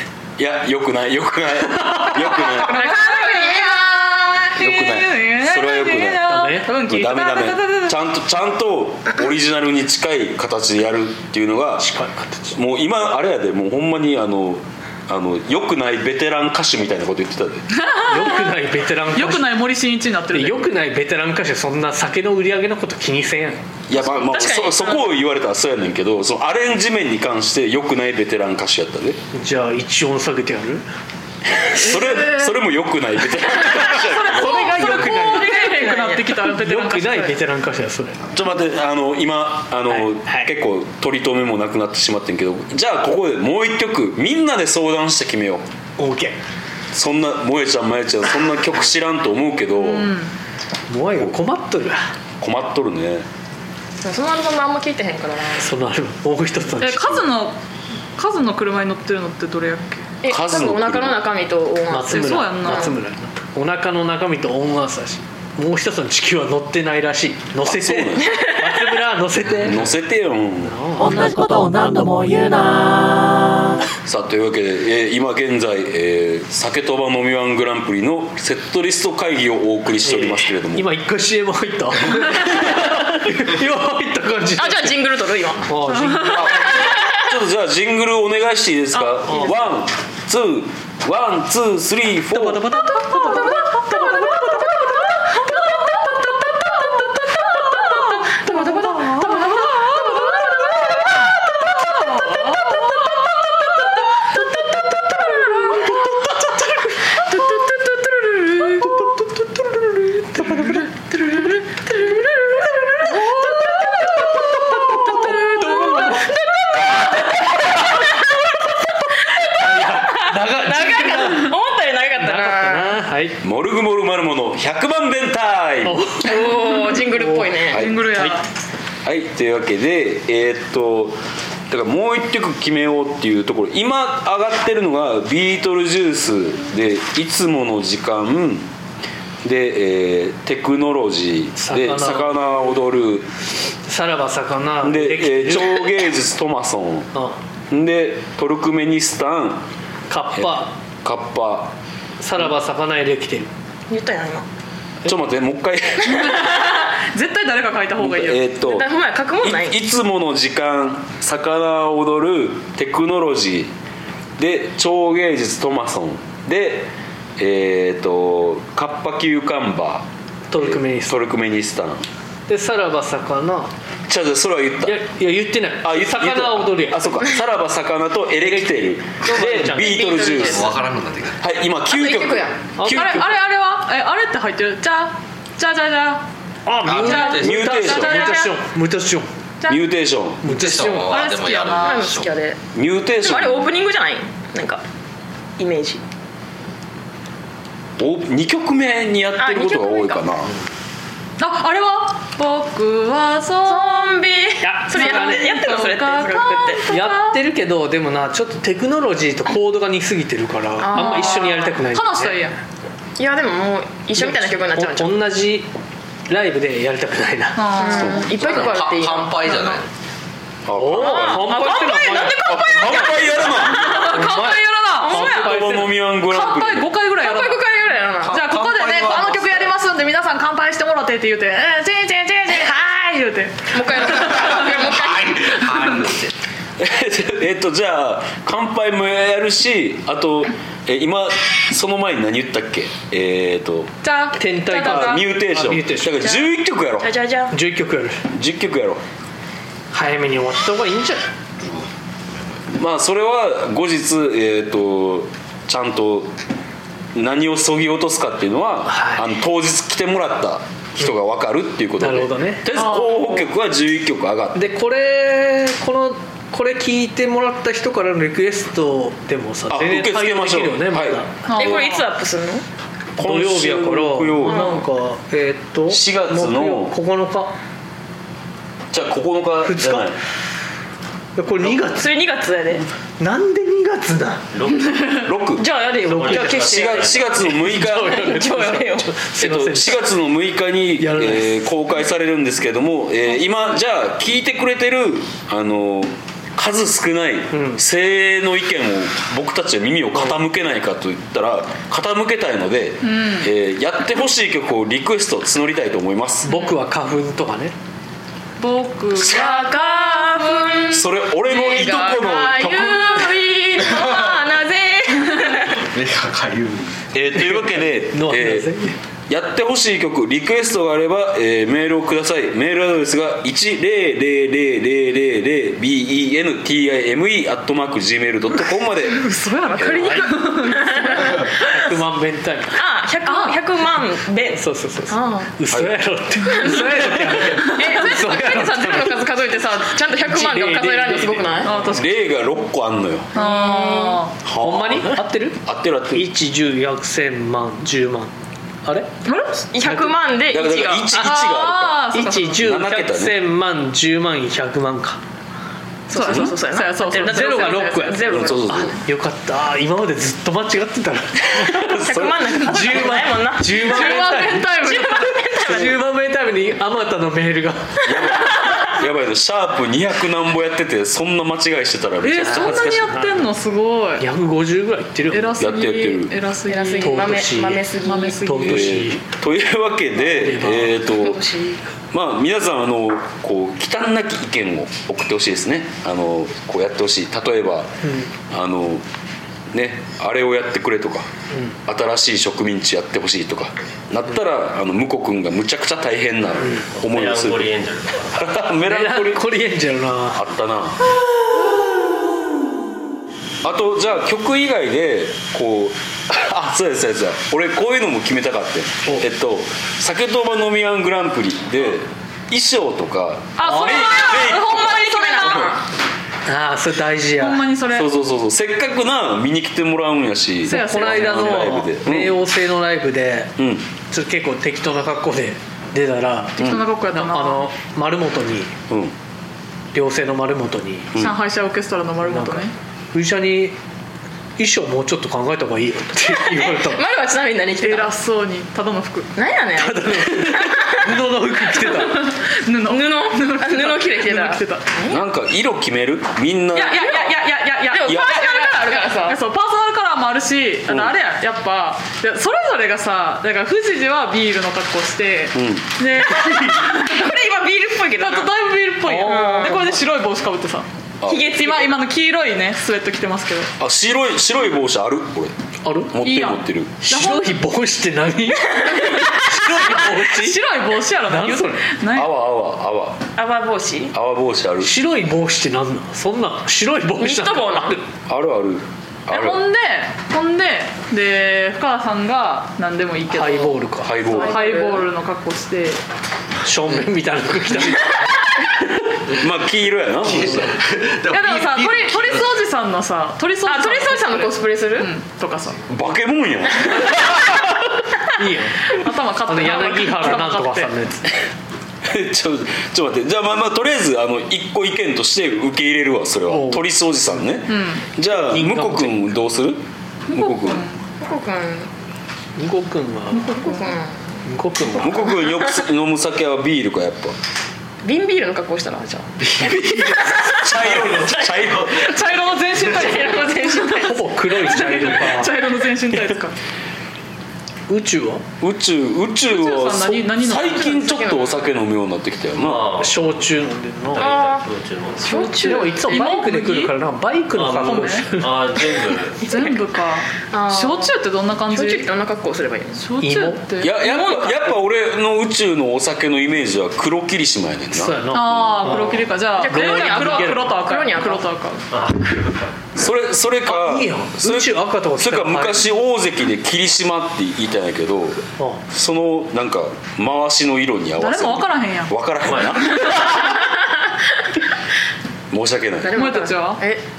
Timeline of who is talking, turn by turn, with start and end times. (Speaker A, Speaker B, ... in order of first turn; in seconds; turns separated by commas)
Speaker A: 0.4-3.0, Speaker B: 2.3-8.0, Speaker C: 2.4-4.2, Speaker A: 4.5-11.9, Speaker D: 6.3-6.7, Speaker D: 11.8-12.6, Speaker A: 12.5-17.7, Speaker B: 17.7-20.7, Speaker D: 18.0-19.5, Speaker D: 20.3-23.6, Speaker A: 23.9-29.2, Speaker C: 23.9-25.1, Speaker D: 29.3-30.8, Speaker A: 31.6-34.9, Speaker D: 31.6-32.4, Speaker B: 33.8-37.4, Speaker D: 34.2-35.7, Speaker C: 34.8-36.3, Speaker D: 36.3-38.2, Speaker A: 38.3-45.6, Speaker D: 39.9-40.5, Speaker D: 46.0-46.4, Speaker A: 46.9-50.1, Speaker B: 49.7-50.3, Speaker D: 50.9-52.0, Speaker A: 52.4-53.2, Speaker C: 54.0-55.7, Speaker D: 55.6-57.3, Speaker B: 56.8-57.5, Speaker B: 58.2-60.1, Speaker C: 60.2-62.9, Speaker A: 60.3-61.2, Speaker D: 61.9-69.9, Speaker B: 62.1-62.9, Speaker A: 67.6-68.5, Speaker C: 68.3-68.8, Speaker A: 69.6-70.8, Speaker D: 70.6-73.3, Speaker A: 74.0-80.9, Speaker D: 80.0-85.0, Speaker C: 84.6-85.8, Speaker D: 85.6-86.7, Speaker B: 85.9-86.7, Speaker A: 86.2-92.8, Speaker C: 86.6-87.2, Speaker D: 89.3-89.5, Speaker D: 92.3-94.6, Speaker B: 92.5-94.8, Speaker B: 95.5-96.1, Speaker B: 96.8-104.2, Speaker C: 97.5-100.9, Speaker D: 104.6-104.8, Speaker B: 105.2-106.0, Speaker D: 105.3-107.2, Speaker C: 107.3-108.9, Speaker B: 107.3-107.6, Speaker D: 108.6-110.9, Speaker C: 111.2-118.4, Speaker D: 113.0-116.3, Speaker B: 115.2-116.2, Speaker C: 119.1-123.0, Speaker D: 119.6-121.5, Speaker D: 122.2-123.4, Speaker A: 123.4-126.1, Speaker D: 125.8-127.5, Speaker C: 126.2-127.8, Speaker A: 127.7-128.1, Speaker B: 127.7-128.4, Speaker A: 129.0-138.7, Speaker A: 139.4-143.3, Speaker D: 141.6-142.8, Speaker D: 143.8-145.9, Speaker A: 144.8-147.1, Speaker A: 147.7-149.7, Speaker D: 150.1-150.8, Speaker A: 150.3-151.7, Speaker D: 152.2-153.5, Speaker C: 153.9-154.4, Speaker A: 155.0-156.3, Speaker B: 156.0-158.6, Speaker C: 156.2-156.5, Speaker A: 158.0-158.9, Speaker C: 158.6-159.8, Speaker A: 159.4-163.7, Speaker A: 164.4-172.1, Speaker D: 170.5-171.2, Speaker D: 172.5-173.7, Speaker A: 174.1-175.0, Speaker D: 174.8-177.0, Speaker A: 175.8-180.7, Speaker D: 178.4-180.5, Speaker C: 179.6-180.8, Speaker E: 180.4-181.4, Speaker A: 181.4-183.2, Speaker C: 181.9-182.6, Speaker D: 182.8-183.4, Speaker B: 182.8-186.2, Speaker D: 186.7-189.3, Speaker E: 186.8-187.6, Speaker B: 187.0-188.6, Speaker A: 187.3-188.4, Speaker B: 189.6-189.9, Speaker A: 189.7-190.6, Speaker D: 190.4-191.1, Speaker E: 190.5-192.3, Speaker B: 190.6-192.1, Speaker C: 191.8-192.6, Speaker A: 192.7-193.7, Speaker C: 193.2-194.8, Speaker C: 195.6-196.0, Speaker A: 198.0-200.5, Speaker C: 199.4-200.4, Speaker B: 201.4-204.2, Speaker C: 203.6-206.9, Speaker D: 204.6-205.6, Speaker B: 204.9-207.4, Speaker D: 206.9-212.4, Speaker C: 210.8-211.7, Speaker B: 210.9-212.5, Speaker C: 213.2-215.2, Speaker D: 214.2-215.7, Speaker D: 216.3-217.8, Speaker B: 217.6-218.3, Speaker C: 217.8-219.6, Speaker A: 217.9-218.3, Speaker E: 218.2-219.8, Speaker B: 219.4-219.8, Speaker A: 220.7-224.0, Speaker D: 220.8-222.4, Speaker C: 220.9-224.2, Speaker B: 221.9-225.7, Speaker D: 223.8-226.0, Speaker C: 225.0-225.5, Speaker A: 225.1-226.9, Speaker B: 226.2-227.6, Speaker C: 227.2-228.4, Speaker E: 228.2-229.6, Speaker B: 228.3-234.6, Speaker C: 233.7-235.6, Speaker E: 234.3-236.3, Speaker A: 236.8-243.9, Speaker B: 244.0-245.3, Speaker D: 244.3-246.2, Speaker A: 244.7-247.1, Speaker C: 246.2-247.5, Speaker D: 247.5-248.2, Speaker A: 248.3-249.0, Speaker D: 249.9-251.2, Speaker A: 252.7-256.3, Speaker A: 257.1-264.6, Speaker D: 258.9-259.3, Speaker D: 262.0-262.7, Speaker B: 262.7-263.4, Speaker D: 264.5-271.3, Speaker A: 269.7-271.9, Speaker B: 271.4-272.1, Speaker C: 271.5-272.6, Speaker A: 273.2-274.7, Speaker D: 273.2-277.5, Speaker C: 274.4-274.9, Speaker A: 275.9-276.9, Speaker A: 278.9-280.2, Speaker D: 279.6-280.1, Speaker D: 281.4-282.1, Speaker C: 281.6-282.9, Speaker D: 283.2-284.4, Speaker F: 284.5-285.3, Speaker A: 285.2-285.7, Speaker C: 285.5-287.4, Speaker F: 286.0-287.4, Speaker D: 286.1-286.7, Speaker A: 286.6-288.4, Speaker D: 287.4-290.1, Speaker C: 287.9-289.2, Speaker A: 289.4-306.5, Speaker D: 291.0-291.6, Speaker D: 297.5-297.8, Speaker B: 303.0-303.5, Speaker B: 306.4-306.8, Speaker D: 306.5-307.7, Speaker B: 308.6-311.0, Speaker C: 309.1-315.8, Speaker A: 310.9-313.4, Speaker E: 315.8-317.0, Speaker A: 317.1-318.7, Speaker D: 318.1-319.0, Speaker A: 319.3-329.2, Speaker B: 329.1-331.4, Speaker C: 329.7-331.7, Speaker D: 330.0-332.8, Speaker C: 332.7-335.5, Speaker B: 333.2-333.6, Speaker D: 334.5-339.4, Speaker A: 335.7-335.9, Speaker C: 336.4-341.8, Speaker D: 340.2-341.7, Speaker B: 341.6-342.2, Speaker A: 341.8-343.3, Speaker C: 343.3-344.2, Speaker B: 343.3-344.4, Speaker D: 344.4-345.6, Speaker A: 344.5-346.3, Speaker D: 346.1-348.3, Speaker D: 348.8-349.1, Speaker B: 349.2-349.5, Speaker C: 349.7-351.1, Speaker D: 349.8-350.1, Speaker A: 350.5-353.4, Speaker B: 351.1-352.7, Speaker D: 352.1-355.2, Speaker C: 356.1-359.0, Speaker B: 356.1-358.4, Speaker A: 356.2-356.5, Speaker D: 357.2-358.3, Speaker A: 358.2-359.0, Speaker D: 359.0-362.0, Speaker A: 361.7-362.6, Speaker C: 361.9-366.0, Speaker D: 362.5-365.0, Speaker B: 363.7-365.5, Speaker D: 365.6-368.0, Speaker A: 365.7-365.9, Speaker A: 368.0-373.3, Speaker C: 368.1-368.9, Speaker B: 372.2-374.2, Speaker D: 372.4-373.3, Speaker D: 374.2-375.6, Speaker B: 375.3-377.4, Speaker A: 375.6-376.4, Speaker C: 376.7-378.4, Speaker D: 377.0-377.9, Speaker B: 378.0-379.0, Speaker D: 378.4-379.2, Speaker A: 378.6-381.4, Speaker D: 380.2-381.0, Speaker C: 381.1-381.8, Speaker A: 382.1-389.0, Speaker D: 388.0-388.3, Speaker A: 389.7-391.3, Speaker D: 391.5-391.8, Speaker A: 391.9-397.7, Speaker F: 397.0-398.3, Speaker A: 398.3-399.5, Speaker D: 398.8-400.4, Speaker A: 400.3-401.0, Speaker A: 403.6-415.7, Speaker B: 413.6-415.8, Speaker D: 413.6-414.1, Speaker C: 413.9-415.8, Speaker D: 416.4-417.6, Speaker B: 417.4-418.1, Speaker A: 417.9-422.4, Speaker D: 420.6-423.5, Speaker B: 420.7-421.8, Speaker A: 423.6-423.9, Speaker D: 424.1-428.8, Speaker A: 426.6-426.8, Speaker B: 426.6-427.7, Speaker A: 428.9-429.1, Speaker D: 429.9-431.1, Speaker B: 431.1-432.7, Speaker D: 432.2-433.7, Speaker D: 434.6-437.0, Speaker C: 436.3-438.1, Speaker B: 437.8-439.3, Speaker C: 439.4-441.1, Speaker D: 439.8-442.3, Speaker B: 441.9-444.9, Speaker C: 442.9-445.2, Speaker A: 445.1-447.1, Speaker C: 446.7-447.3, Speaker B: 446.7-457.3, Speaker C: 447.9-449.4, Speaker A: 450.9-451.1, Speaker A: 455.5-455.9, Speaker C: 456.4-458.5, Speaker B: 458.2-460.9, Speaker D: 459.1-459.9, Speaker C: 459.1-459.9, Speaker A: 461.2-461.5, Speaker C: 461.2-461.9, Speaker B: 461.5-463.7, Speaker A: 463.8-465.5, Speaker D: 465.8-466.1, Speaker A: 466.1-466.9, Speaker B: 466.2-467.6, Speaker D: 467.0-470.6, Speaker C: 468.8-469.3, Speaker B: 469.6-472.3, Speaker D: 471.2-471.9, Speaker A: 472.1-473.2, Speaker C: 473.4-474.1, Speaker A: 474.1-474.9, Speaker D: 474.8-478.0, Speaker C: 477.2-478.0, Speaker A: 478.3-479.6, Speaker B: 479.3-486.0, Speaker D: 483.3-484.1, Speaker A: 484.0-484.6, Speaker C: 484.2-485.1, Speaker D: 486.6-488.9, Speaker A: 489.3-490.8, Speaker E: 490.2-492.5, Speaker B: 491.3-495.8, Speaker C: 493.6-495.1, Speaker A: 495.9-497.9, Speaker D: 498.3-498.9, Speaker B: 498.9-500.9, Speaker D: 499.5-501.4, Speaker A: 502.0-510.9, Speaker D: 506.5-506.9, Speaker B: 507.7-508.1, Speaker D: 508.4-509.3, Speaker B: 510.3-511.0, Speaker C: 511.2-511.9, Speaker D: 512.6-513.8, Speaker B: 513.4-513.7, Speaker C: 513.5-514.4, Speaker D: 514.5-515.3, Speaker A: 515.0-517.4, Speaker C: 515.0-515.8, Speaker C: 518.0-521.7, Speaker D: 519.4-521.4, Speaker A: 520.5-522.2, Speaker B: 521.9-526.5, Speaker C: 522.8-524.2, Speaker D: 523.9-525.5, Speaker D: 527.9-528.4, Speaker A: 528.6-533.0, Speaker B: 529.5-531.1, Speaker C: 530.8-531.6, Speaker F: 532.6-533.2, Speaker D: 533.0-534.3, Speaker F: 534.1-535.5, Speaker C: 534.2-534.6, Speaker C: 535.2-536.1, Speaker D: 535.3-538.6, Speaker B: 535.4-536.9, Speaker F: 537.5-539.4, Speaker B: 537.8-538.3, Speaker C: 539.4-539.8, Speaker B: 539.5-542.1, Speaker C: 540.5-541.1, Speaker C: 541.7-543.0, Speaker B: 543.0-544.3, Speaker D: 543.2-543.6, Speaker A: 543.8-549.0, Speaker C: 544.0-544.7, Speaker D: 547.9-550.8, Speaker B: 548.3-551.8, Speaker C: 549.5-551.5, Speaker F: 551.9-552.7, Speaker A: 553.0-563.4, Speaker D: 553.6-555.9, Speaker B: 561.2-563.4, Speaker F: 562.5-562.8, Speaker C: 563.4-563.7, Speaker A: 565.5-566.1, Speaker C: 566.0-567.0, Speaker B: 566.1-566.8